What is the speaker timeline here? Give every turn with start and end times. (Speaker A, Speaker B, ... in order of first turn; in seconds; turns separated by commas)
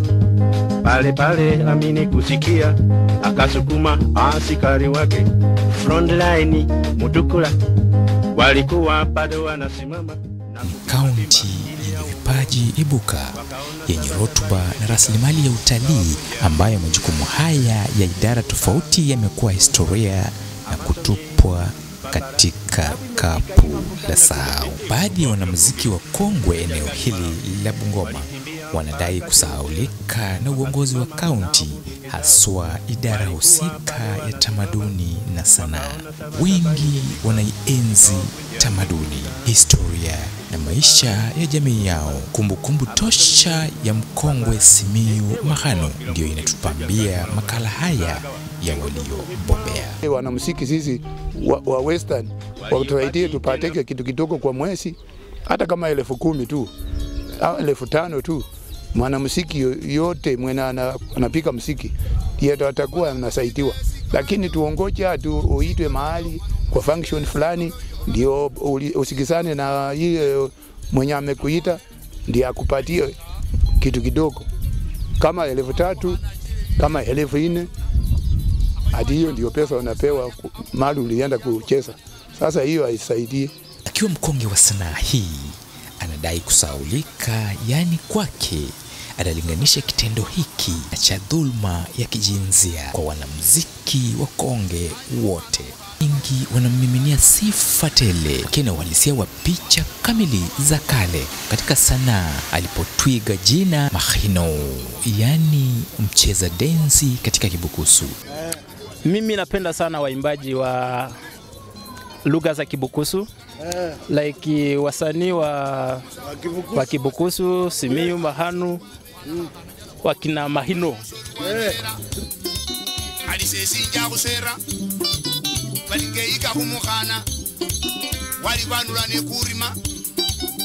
Speaker A: 0.8-7.5, Speaker A: 8.3-12.1, Speaker B: 10.6-50.0, Speaker A: 13.9-14.8, Speaker A: 23.0-25.5, Speaker A: 36.0-37.1, Speaker A: 45.3-47.5, Speaker C: 50.0-56.7, Speaker A: 52.7-53.6, Speaker C: 57.4-73.1, Speaker C: 73.8-74.5, Speaker C: 75.2-76.2, Speaker C: 76.8-77.7, Speaker C: 78.9-83.5, Speaker B: 83.8-108.2, Speaker D: 109.0-111.1, Speaker D: 112.2-113.3, Speaker D: 114.1-116.0, Speaker D: 116.7-118.8, Speaker D: 120.0-121.0, Speaker E: 121.2-122.0, Speaker E: 123.2-124.6, Speaker E: 125.9-127.2, Speaker E: 128.4-129.7